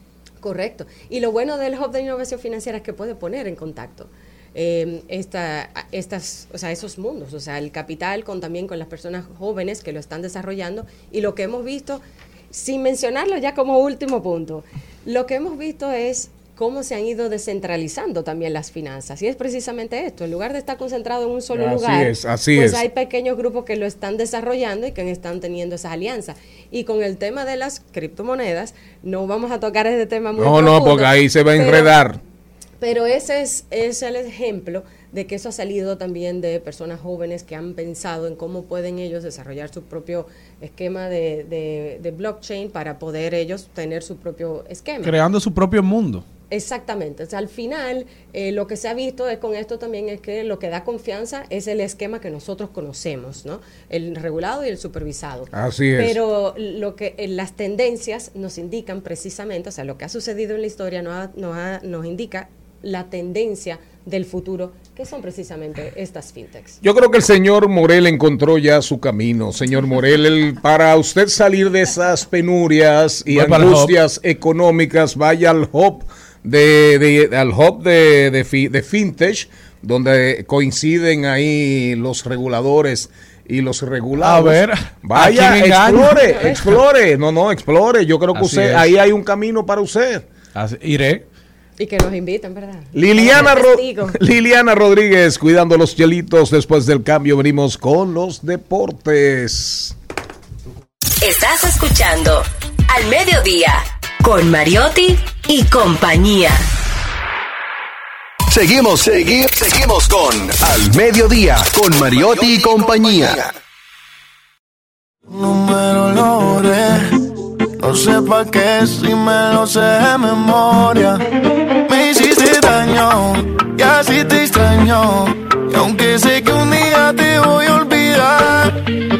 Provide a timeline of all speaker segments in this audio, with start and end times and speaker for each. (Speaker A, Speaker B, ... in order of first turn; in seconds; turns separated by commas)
Speaker A: 0.4-31.9, Speaker B: 21.5-22.8, Speaker B: 30.4-32.2, Speaker A: 32.8-45.1, Speaker C: 45.0-46.2, Speaker A: 46.5-66.8, Speaker B: 55.5-56.1, Speaker B: 66.8-90.3, Speaker C: 73.3-74.0, Speaker C: 84.2-86.8, Speaker A: 86.2-86.6, Speaker C: 88.3-88.9, Speaker C: 90.5-91.2, Speaker A: 91.8-94.2, Speaker B: 92.9-99.9, Speaker D: 101.2-106.6, Speaker E: 108.5-113.5, Speaker F: 115.3-117.1, Speaker F: 117.8-121.2, Speaker F: 121.8-128.8